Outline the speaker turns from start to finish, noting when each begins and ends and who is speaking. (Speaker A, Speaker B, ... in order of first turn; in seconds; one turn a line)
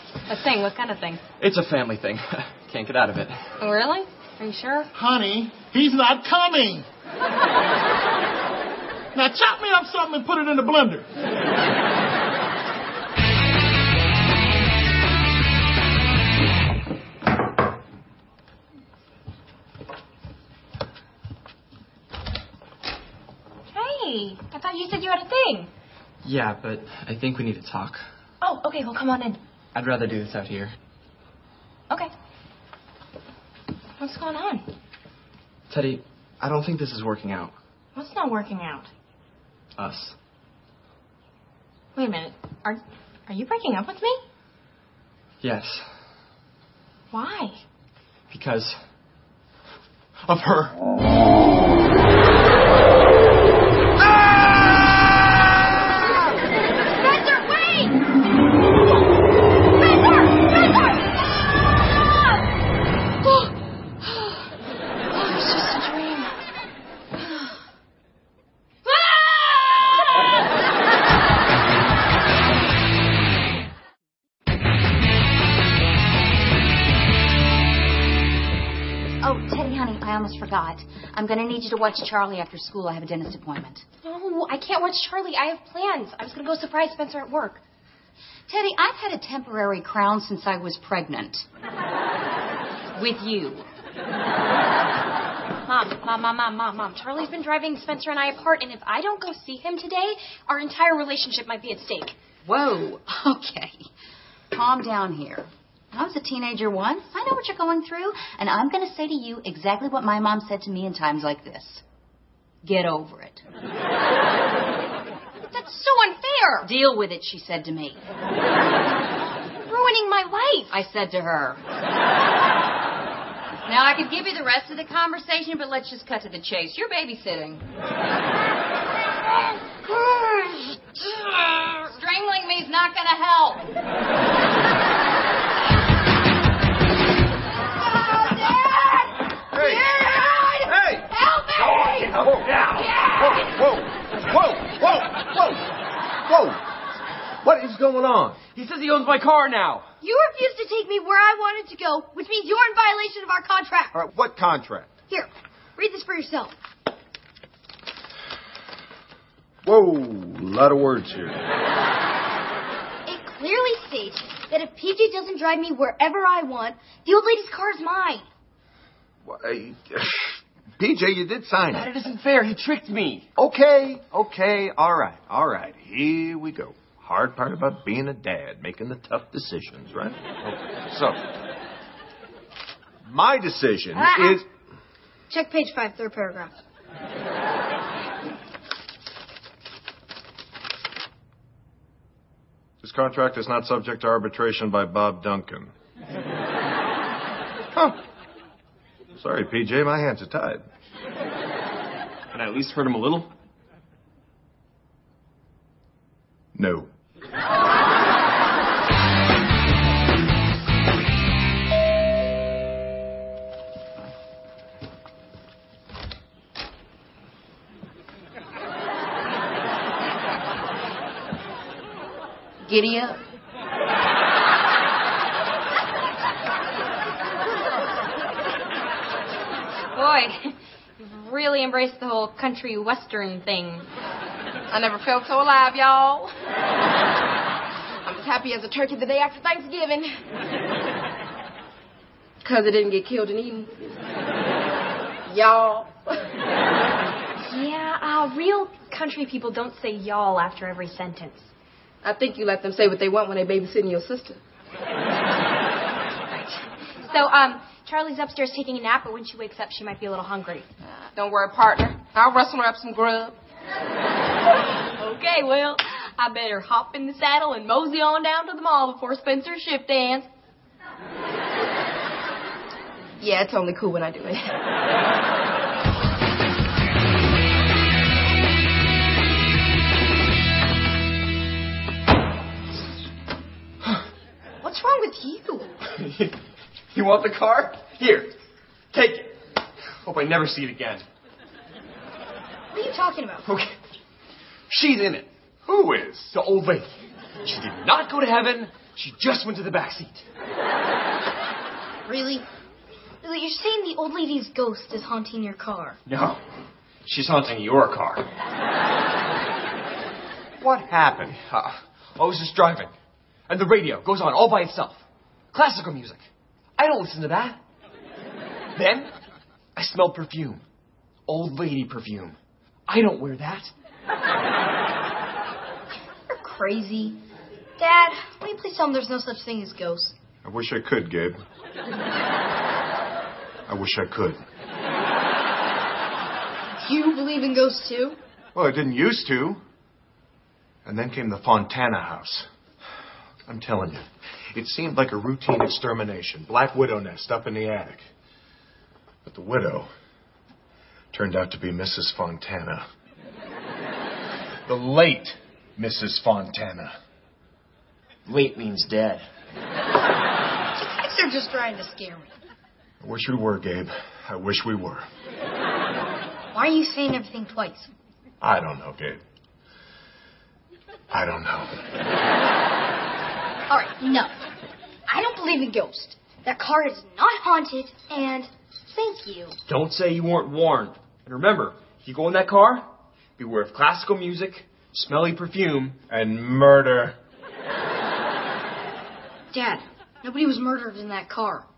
Speaker A: 0.3-1.2
Speaker B: 1.4-3.4
Speaker A: 3.6-4.9
Speaker C: 4.9-6.8
Speaker C: 9.1-11.1
Speaker A: 23.7-25.7
Speaker B: 26.2-28.1
Speaker A: 28.4-29.4
Speaker B: 29.7-30.8
Speaker A: 34.0-34.7
Speaker B: 35.7-37.5
Speaker A: 37.9-38.9
Speaker B: 39.8-40.2
Speaker A: 41.9-44.2
Speaker B: 45.4-46.1
Speaker A: 47.1-47.6
Speaker B: 48.3-48.9
Speaker B: 50.2-50.8
Speaker A: 57.0-57.9
Speaker A: 64.0-64.4
Speaker A: 65.1-66.4
Speaker A: 68.8-70.0
Speaker D: 79.2-83.8
Speaker A: 84.0-87.6
Speaker D: 88.5-91.4
Speaker D: 92.9-93.7
Speaker A: 95.6-102.2
Speaker D: 102.4-103.9
Speaker D: 104.5-111.8
Speaker D: 112.6-113.4
Speaker A: 115.5-116.7
Speaker D: 116.6-118.0
Speaker A: 119.6-120.7
Speaker D: 120.7-121.6
Speaker D: 123.6-127.7
Speaker D: 129.7-133.7
Speaker E: 139.5-145.6
Speaker F: 139.5-140.6
Speaker F: 141.1-141.7
Speaker G: 141.9-142.9
Speaker E: 146.2-146.6
Speaker E: 147.4-148.4
Speaker G: 148.5-149.8
Speaker F: 150.0-153.9
Speaker E: 153.9-155.0
Speaker F: 155.1-156.5
Speaker E: 159.6-161.4
Speaker F: 163.1-168.3
Speaker E: 169.2-171.9
Speaker G: 171.7-173.3
Speaker E: 173.3-181.2
Speaker E: 183.1-184.4
Speaker F: 183.9-184.4
Speaker F: 185.3-186.5
Speaker E: 192.8-195.7
Speaker E: 199.2-200.7
Speaker G: 202.3-203.3
Speaker E: 206.5-206.9
Speaker D: 222.6-223.2
Speaker A: 229.9-233.9
Speaker H: 234.7-236.3
Speaker H: 238.0-240.2
Speaker H: 242.4-243.8
Speaker H: 245.2-246.2
Speaker A: 247.4-251.5
Speaker H: 252.0-254.4
Speaker A: 256.3-260.7
Speaker H: 261.1-263.4
Speaker A: 265.0-270.3
Speaker H: 273.2-274.6
Speaker F: 284.6-285.7
Speaker G: 285.9-286.4
Speaker G: 286.9-288.3
Speaker G: 288.9-289.4
Speaker G: 290.0-291.0
Speaker F: 292.7-293.4
Speaker G: 293.4-293.7
Speaker G: 294.7-295.3
Speaker E: 295.6-296.2
Speaker G: 296.0-296.9
Speaker G: 297.4-300.2
Speaker F: 302.1-302.4
Speaker F: 303.2-306.0
Speaker G: 306.1-306.4
Speaker G: 307.0-308.3
Speaker G: 310.6-312.9
Speaker E: 311.0-311.3
Speaker G: 313.5-316.2
Speaker G: 316.8-317.6
Speaker G: 318.8-319.1
Speaker G: 319.8-320.6
Speaker G: 321.3-322.4
Speaker G: 322.9-323.7
Speaker F: 326.3-327.2
Speaker F: 327.8-330.2
Speaker E: 330.4-331.4
Speaker E: 333.7-334.4
Speaker F: 336.8-338.2
Speaker E: 338.5-339.6
Speaker E: 340.8-342.5
Speaker E: 343.5-348.1
Speaker E: 349.2-349.9
Speaker E: 351.1-352.9
Speaker E: 354.7-356.9
Speaker G: 358.2-359.2
Speaker F: 360.9-362.3
Speaker E: 363.0-365.1
Speaker F: 366.5-367.9
Speaker E: 368.4-369.2
Speaker E: 371.1-371.7
Speaker F: 373.7-374.3
Speaker F: 375.1-379.6
Speaker G: 379.7-382.9
Speaker G: 383.4-386.0
Speaker E: 386.1-387.2
Speaker F: 389.5-391.6